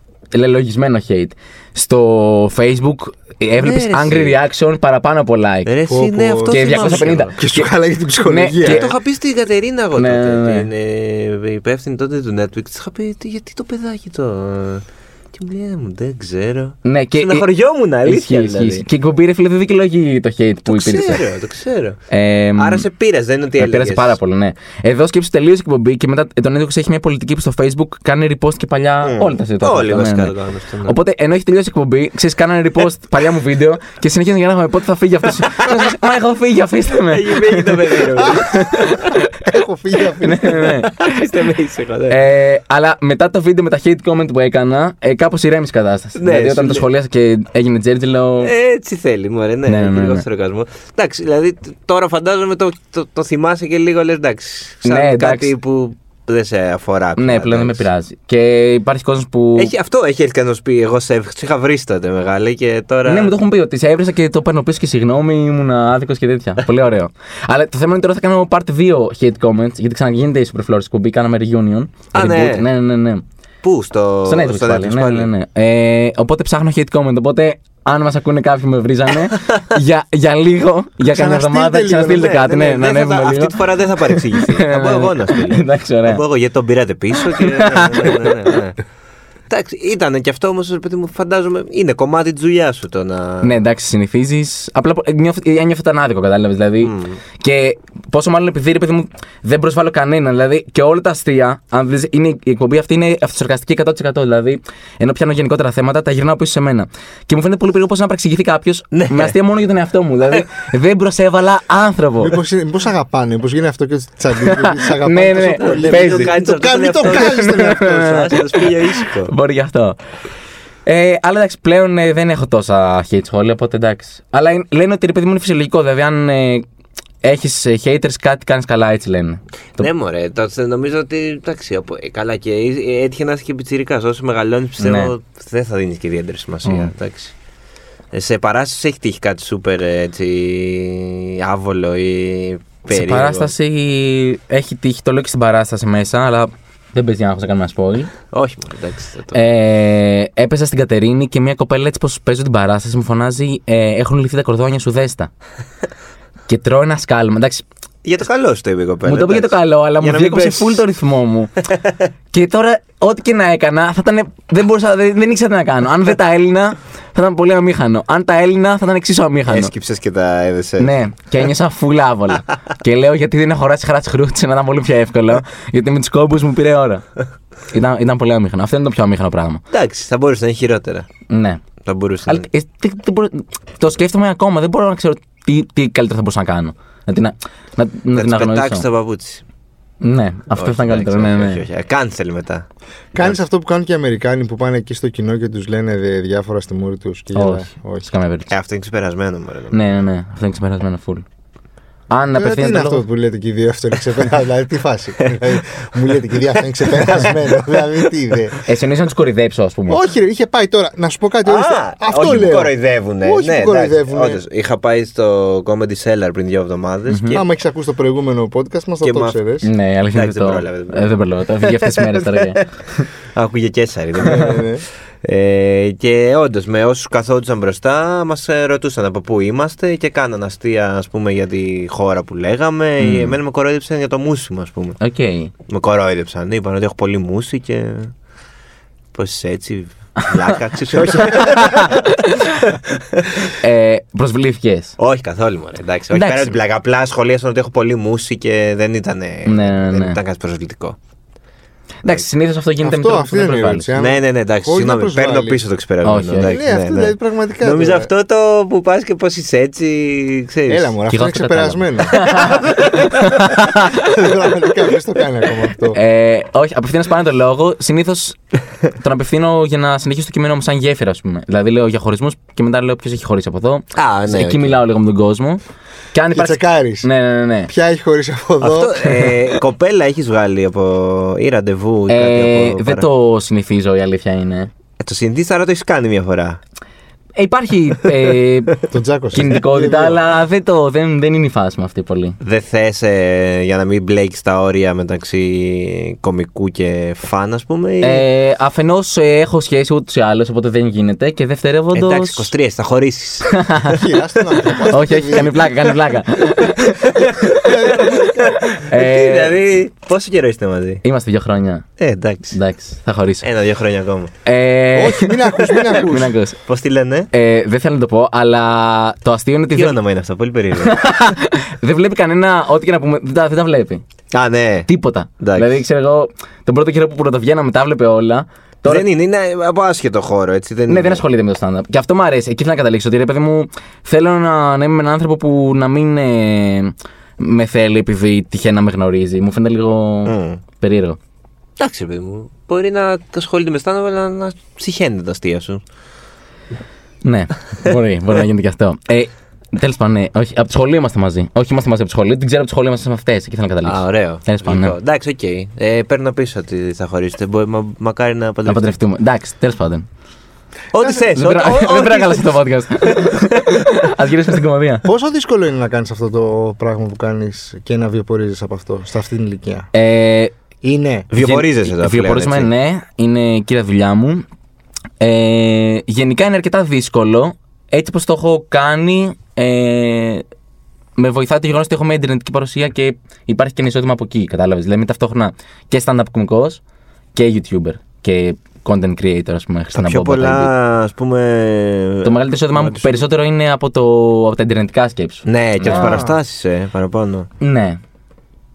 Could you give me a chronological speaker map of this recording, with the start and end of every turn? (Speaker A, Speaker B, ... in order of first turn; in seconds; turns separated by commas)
Speaker A: 0.3-5.7, Speaker B: 3.6-4.3, Speaker B: 5.6-7.3, Speaker C: 5.9-8.9, Speaker A: 6.5-7.7, Speaker A: 8.2-8.9, Speaker B: 8.6-18.8, Speaker A: 10.0-10.7, Speaker A: 16.8-17.5, Speaker A: 18.0-21.2, Speaker B: 20.7-22.0, Speaker A: 22.1-22.9, Speaker B: 22.6-24.1, Speaker A: 23.6-30.3, Speaker B: 29.0-30.9, Speaker A: 30.8-39.1, Speaker B: 37.1-39.1, Speaker C: 38.2-38.6, Speaker C: 39.4-40.7, Speaker A: 40.2-41.2, Speaker B: 40.4-42.2, Speaker A: 42.1-48.5, Speaker B: 46.1-46.9, Speaker B: 48.4-57.9, Speaker A: 49.6-50.2, Speaker A: 54.8-55.5, Speaker A: 57.2-59.7, Speaker B: 59.5-63.3, Speaker A: 63.0-73.2, Speaker B: 72.1-72.7, Speaker B: 73.6-75.3, Speaker A: 74.3-86.2, Speaker B: 79.3-79.6, Speaker C: 81.1-82.6, Speaker B: 82.2-88.8, Speaker A: 87.4-88.3, Speaker B: 89.5-93.6, Speaker A: 93.4-112.4, Speaker B: 96.8-97.2, Speaker B: 108.9-109.3, Speaker C: 112.2-118.2, Speaker A: 114.6-116.3, Speaker B: 115.4-119.3, Speaker A: 117.0-120.0, Speaker A: 120.8-126.6, Speaker A: 127.2-129.9, Speaker B: 129.8-137.3, Speaker A: 134.8-135.1, Speaker A: 136.6-136.9, Speaker B: 138.1-143.5, Speaker A: 142.9-148.1, Speaker B: 148.3-149.4, Speaker A: 149.3-155.3, Speaker A: 156.5-157.6, Speaker B: 158.0-160.8, Speaker A: 159.1-161.5, Speaker B: 161.7-162.1, Speaker A: 162.3-169.7, Speaker B: 169.5-170.9, Speaker A: 170.8-177.1, Speaker A: 177.7-179.6, Speaker B: 179.7-181.1, Speaker A: 181.3-181.6, Speaker B: 181.8-182.5, Speaker A: 182.3-188.8, Speaker B: 188.1-189.4, Speaker A: 190.0-191.6, Speaker B: 190.5-192.7, Speaker C: 193.1-198.1, Speaker A: 197.3-198.5, Speaker B: 198.5-200.0, Speaker A: 199.7-201.2, Speaker A: 202.1-203.0, Speaker C: 202.3-208.6, Speaker B: 206.6-208.0, Speaker A: 208.6-210.0, Speaker C: 209.9-214.4, Speaker B: 211.4-217.5, Speaker A: 217.1-217.4, Speaker C: 217.3-219.7, Speaker B: 219.0-219.4, Speaker A: 219.6-223.1, Speaker B: 220.1-222.7, Speaker B: 223.3-235.0, Speaker C: 224.2-224.8, Speaker A: 233.0-233.4, Speaker A: 235.0-235.5, Speaker B: 235.7-238.1, Speaker B: 239.1-243.5, Speaker C: 241.0-241.4, Speaker A: 241.1-242.5, Speaker A: 243.6-244.9, Speaker B: 245.0-251.0, Speaker A: 246.1-246.6, Speaker A: 249.4-250.2, Speaker A: 252.0-253.9, Speaker C: 252.8-255.6, Speaker B: 253.9-260.9, Speaker A: 256.0-256.5, Speaker C: 256.4-258.1, Speaker C: 260.7-262.8, Speaker A: 261.1-264.2, Speaker B: 262.2-263.0, Speaker C: 263.4-266.0, Speaker A: 265.9-268.4, Speaker A: 269.0-275.6, Speaker B: 273.9-274.8, Speaker A: 276.1-277.7, Speaker C: 276.3-277.1, Speaker C: 277.7-279.4, Speaker B: 278.6-283.1, Speaker A: 282.1-284.7, Speaker B: 285.0-286.6, Speaker A: 287.4-292.4, Speaker C: 288.9-290.2, Speaker B: 292.4-298.2, Speaker A: 298.0-302.5, Speaker B: 301.9-304.0, Speaker A: 303.5-303.9, Speaker C: 303.9-305.7, Speaker B: 304.5-305.5, Speaker A: 304.9-308.0, Speaker B: 306.8-311.0, Speaker C: 307.6-308.6, Speaker A: 308.7-309.5, Speaker A: 311.0-311.8, Speaker B: 312.0-312.6, Speaker A: 312.5-313.5, Speaker B: 313.4-314.3, Speaker A: 314.4-316.6, Speaker C: 314.9-316.3, Speaker B: 316.7-317.3, Speaker A: 317.3-320.0, Speaker B: 319.7-321.0, Speaker A: 320.8-324.0, Speaker B: 324.3-324.9, Speaker A: 324.9-329.1, Speaker B: 325.4-325.8, Speaker B: 328.8-331.2, Speaker A: 330.9-341.2, Speaker B: 340.2-340.6, Speaker B: 341.8-345.8, Speaker A: 347.2-354.9, Speaker B: 353.8-358.9, Speaker A: 358.6-360.1, Speaker B: 360.9-363.9, Speaker A: 361.3-365.1, Speaker C: 365.0-369.9, Speaker A: 369.9-370.5, Speaker C: 370.8-371.3, Speaker B: 371.3-372.7, Speaker A: 371.4-374.4, Speaker A: 375.2-380.4, Speaker A: 381.2-386.8, Speaker A: 387.3-390.7, Speaker B: 389.9-393.2, Speaker A: 392.2-396.2, Speaker B: 395.4-397.5, Speaker C: 395.8-396.4, Speaker A: 397.6-398.0